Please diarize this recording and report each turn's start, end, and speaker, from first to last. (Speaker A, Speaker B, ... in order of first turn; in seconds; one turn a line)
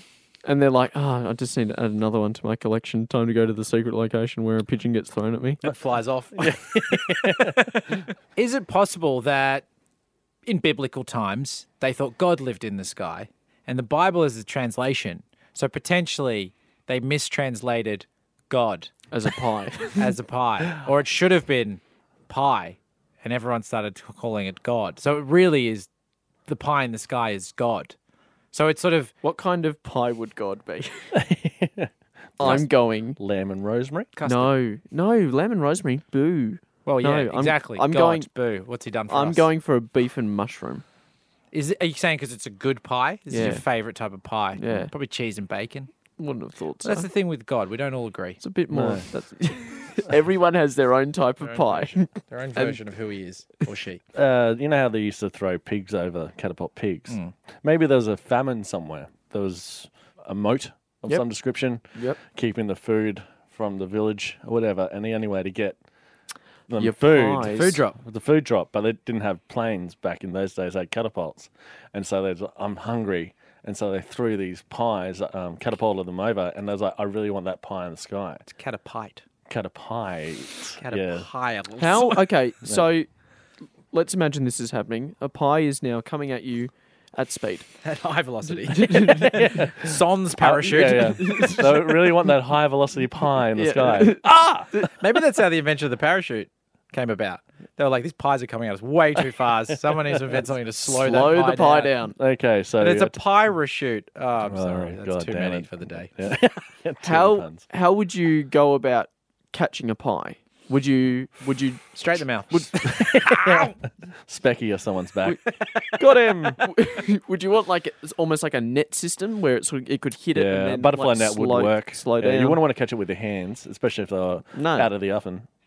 Speaker A: 0.5-5.6
Speaker B: 5.6-9.7
Speaker C: 6.4-8.0
Speaker B: 10.5-18.9
Speaker A: 19.1-20.1
Speaker B: 20.0-25.9
Speaker B: 26.5-28.0
Speaker B: 28.5-29.1
Speaker A: 29.2-31.1
Speaker C: 31.1-34.1
Speaker A: 32.4-33.2
Speaker B: 34.2-34.5
Speaker A: 34.2-38.3
Speaker B: 36.9-39.5
Speaker A: 39.1-40.8
Speaker B: 41.5-45.9
Speaker A: 43.3-43.6
Speaker A: 44.6-44.9
Speaker A: 46.2-47.1
Speaker B: 46.8-48.4
Speaker A: 48.4-52.8
Speaker C: 48.7-49.0
Speaker B: 51.4-54.0
Speaker C: 54.1-65.8
Speaker A: 61.9-62.2
Speaker C: 66.7-78.4
Speaker A: 66.8-67.8
Speaker B: 67.5-68.0
Speaker B: 78.5-79.2
Speaker C: 79.5-81.3
Speaker B: 80.8-82.2
Speaker A: 81.8-83.1
Speaker A: 83.9-87.7
Speaker B: 87.8-91.6
Speaker A: 88.7-89.4
Speaker C: 89.2-94.8
Speaker A: 90.8-92.2
Speaker A: 93.5-94.9
Speaker B: 94.9-102.0
Speaker C: 99.9-100.4
Speaker A: 100.9-102.2
Speaker C: 102.2-103.2
Speaker B: 102.8-106.1
Speaker C: 104.5-107.6
Speaker A: 107.0-112.0
Speaker B: 112.0-113.8
Speaker C: 112.8-113.8
Speaker C: 114.3-115.4
Speaker B: 115.7-116.0
Speaker C: 115.9-116.6
Speaker A: 116.6-122.6
Speaker C: 120.3-125.5
Speaker A: 124.5-124.9